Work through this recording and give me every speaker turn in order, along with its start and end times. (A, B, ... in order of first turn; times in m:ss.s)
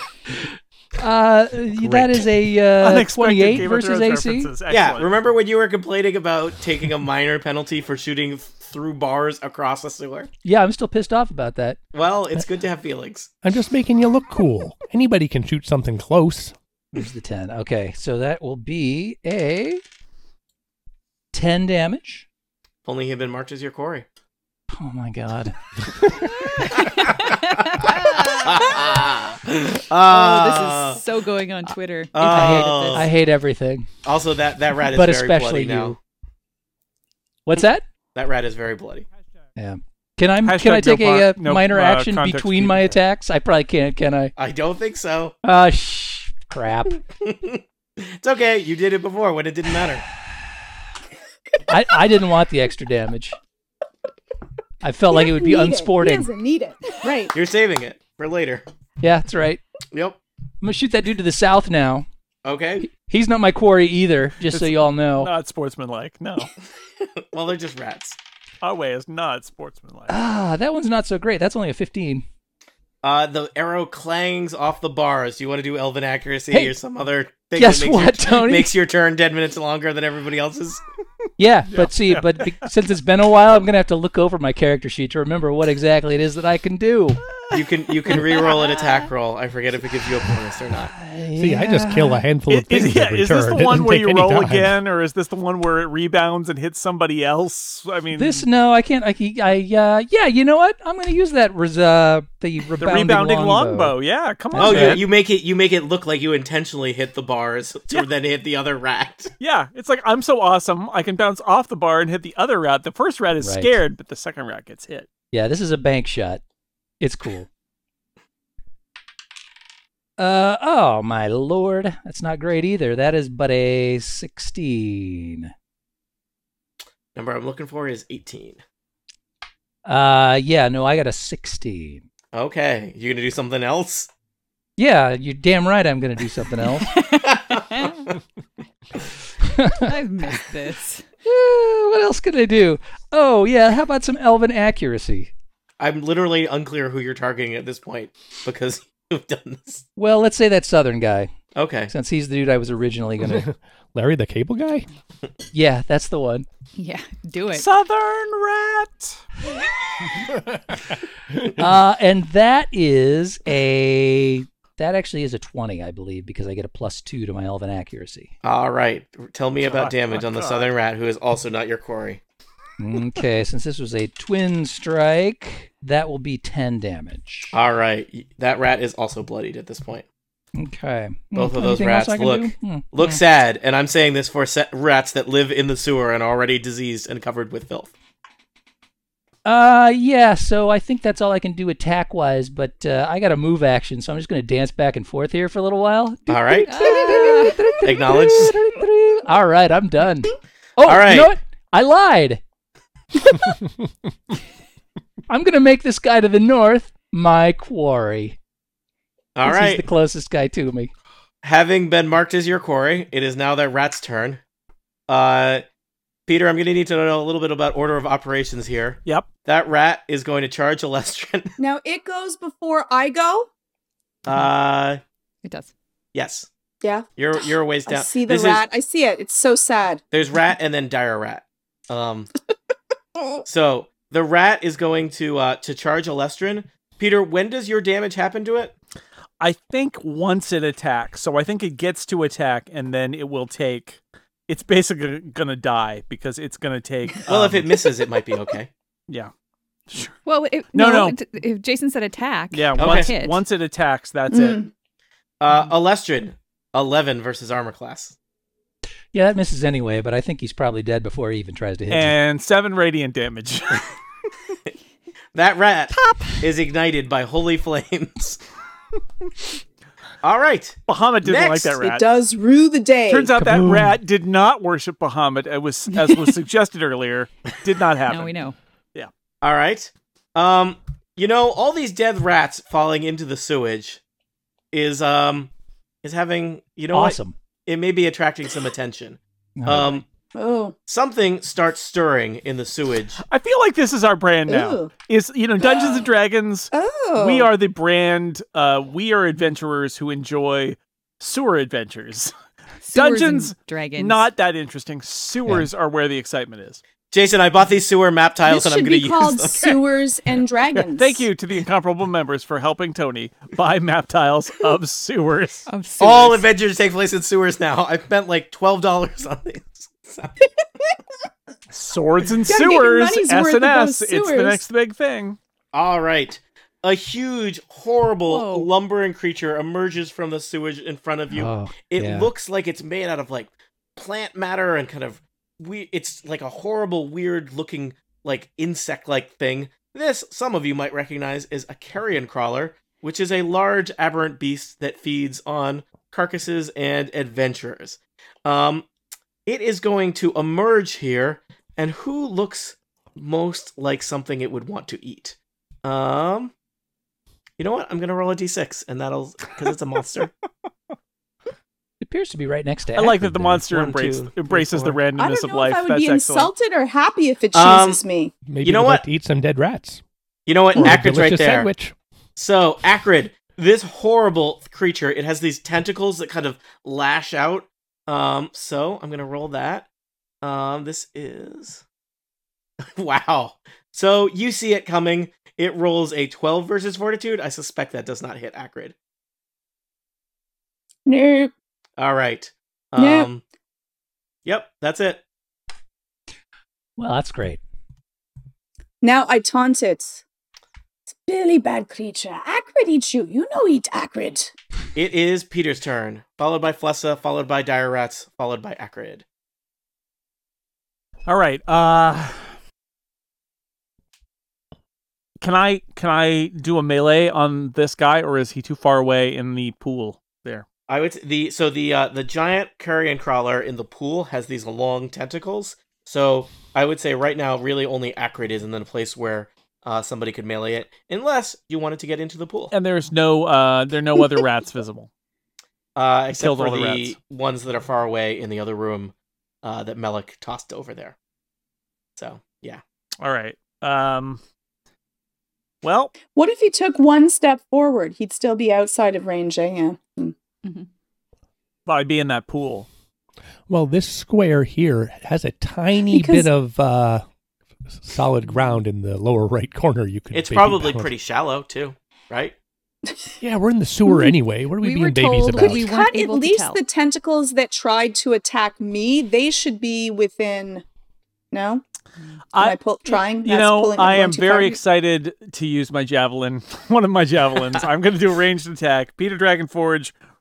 0:01.0-0:04.5 A
0:02.8-0:05.1 B
0:04.7-0:10.3 C
0:10.4-0:11.8 A
0:11.9-0:13.3 C
0:13.4-0:16.5 D
0:16.9-0:19.8 A
0:21.3-0:22.3 A
0:22.8-0:24.1 C
0:24.7-0:26.3 A
0:26.6-0:29.0 E
0:26.8-0:31.0 C
0:30.0-0:33.1 E
0:32.1-0:33.1 C
0:32.2-0:33.9 A
0:34.0-0:36.0 C
0:34.9-0:36.0 A
0:37.5-0:37.8 A
0:38.2-0:39.1 C
0:39.6-0:44.3 A
0:40.4-0:43.0 B
0:44.4-0:45.4 C
0:45.4-0:47.0 A
0:47.2-0:50.0 C
0:51.7-0:53.4 A
0:54.8-0:56.3 A
0:55.1-0:57.3 F
0:57.3-0:58.6 C
0:59.0-0:59.6 A
0:59.9-1:00.2 C
1:00.6-1:02.1 A
1:02.4-1:02.9 C
1:02.9-1:05.3 A
1:04.5-1:06.5 B
1:07.3-1:08.2 C
1:08.6-1:10.2 B
1:10.1-1:12.2 A
1:13.0-1:20.8 C
1:16.5-1:16.8 A
1:17.6-1:18.7 A
1:21.4-1:27.2 A
1:21.7-1:22.7 B
1:27.5-1:30.9 C
1:30.8-1:32.2 A
1:31.4-1:34.8 D
1:32.5-1:38.4 B
1:38.1-1:44.0 A
1:42.8-1:45.0 B
1:44.5-1:45.0 A
1:44.6-1:49.3 C
1:49.4-1:55.1 B
1:53.4-1:53.8 A
1:55.3-1:56.4 A
1:57.0-1:57.5 A
2:00.2-2:05.5 A
2:07.2-2:08.6 C
2:09.8-2:12.0 A
2:12.3-2:14.1 C
2:14.8-2:16.9 A
2:16.9-2:18.0 E
2:17.2-2:18.1 C
2:19.4-2:19.9 A
2:19.8-2:21.1 E
2:21.2-2:25.3 A
2:25.8-2:29.8 C
2:30.0-2:31.3 A
2:31.6-2:31.9 C
2:31.9-2:33.5 A
2:33.2-2:34.9 D
2:35.5-2:36.5 A
2:36.8-2:37.7 E
2:37.6-2:39.2 B
2:41.6-2:48.3 A
2:48.4-2:52.2 C
2:49.7-2:50.7 B
2:52.8-2:57.6 A
2:57.5-3:00.0 C
3:00.6-3:03.2 A
3:01.4-3:07.9 C
3:09.4-3:22.4 A
3:16.3-3:16.8 C
3:16.7-3:17.6 E
3:17.8-3:18.6 C
3:20.8-3:21.3 C
3:25.3-3:28.4 A
3:29.4-3:29.8 C
3:29.4-3:30.9 A
3:31.4-3:34.4 C
3:35.1-3:35.6 C
3:36.3-3:41.6 C
3:41.6-3:43.5 F
3:44.2-3:45.0 C
3:45.4-3:45.7 E
3:46.1-3:46.5 C
3:46.8-3:47.1 F
3:47.2-3:48.6 C
3:47.9-3:50.0 F
3:50.1-3:52.3 C
3:53.5-3:58.7 C
3:59.4-4:07.7 B
4:07.3-4:08.7 C
4:09.9-4:10.2 B
4:10.2-4:13.4 E
4:10.7-4:11.2 B
4:12.5-4:14.6 B
4:12.8-4:13.1 C
4:14.3-4:14.7 F
4:15.4-4:18.2 C
4:19.1-4:22.2 A
4:21.9-4:23.9 B
4:25.4-4:28.4 C
4:30.2-4:31.8 C
4:30.9-4:32.0 B
4:31.8-4:33.3 F
4:33.1-4:38.3 B
4:33.4-4:34.0 A
4:38.1-4:38.6 E
4:39.4-4:44.0 C
4:44.7-4:45.5 C
4:46.0-4:50.0 C
4:46.9-4:47.4 A
4:49.6-4:49.8 A
4:50.3-4:50.8 F
4:50.9-4:53.2 C
4:53.2-5:02.3 B
4:54.5-4:54.9 F
4:55.6-4:56.0 F
4:56.7-4:57.5 F
5:02.8-5:04.3 E
5:02.9-5:06.8 B
5:07.1-5:09.8 C
5:08.5-5:11.3 F
5:10.8-5:15.7 B
5:15.7-5:16.4 E
5:16.0-5:20.4 C
5:21.7-5:25.4 B
5:22.5-5:24.6 F
5:25.7-5:48.9 C
5:28.3-5:28.7 E
5:31.3-5:32.3 A
5:49.5-5:56.5 C
5:57.6-6:00.3 C
6:02.0-6:03.7 A
6:03.0-6:06.5 B
6:03.7-6:04.9 C
6:05.2-6:08.4 F
6:07.5-6:08.0 C
6:08.4-6:10.0 D
6:08.6-6:09.1 C
6:10.5-6:11.7 C
6:10.8-6:12.0 D
6:12.4-6:19.9 C
6:20.4-6:21.8 C
6:22.9-6:29.0 C
6:31.1-6:31.5 F
6:32.0-6:33.4 C
6:33.0-6:33.3 F
6:34.4-6:35.2 C
6:37.0-6:37.6 A
6:39.0-6:40.2 F
6:41.1-6:44.5 F
6:45.0-6:49.2 C
6:51.3-6:52.6 B
6:55.4-7:00.6 B
7:00.9-7:12.7 C
7:12.7-7:15.1 B
7:16.0-7:21.2 C
7:16.3-7:17.2 B
7:22.2-7:22.8 C
7:23.2-7:24.4 B
7:25.8-7:26.1 B
7:26.3-7:30.3 F
7:31.9-7:32.9 B
7:33.7-7:37.2 D
7:36.1-7:36.5 F
7:37.9-7:41.1 D
7:38.4-7:38.8 E
7:40.3-7:42.6 C
7:43.4-7:45.9 D
7:44.1-7:44.3 F
7:44.8-7:46.8 E
7:45.6-7:50.8 F
7:51.5-7:51.8 F
7:52.5-8:00.1 B
7:52.6-7:54.8 F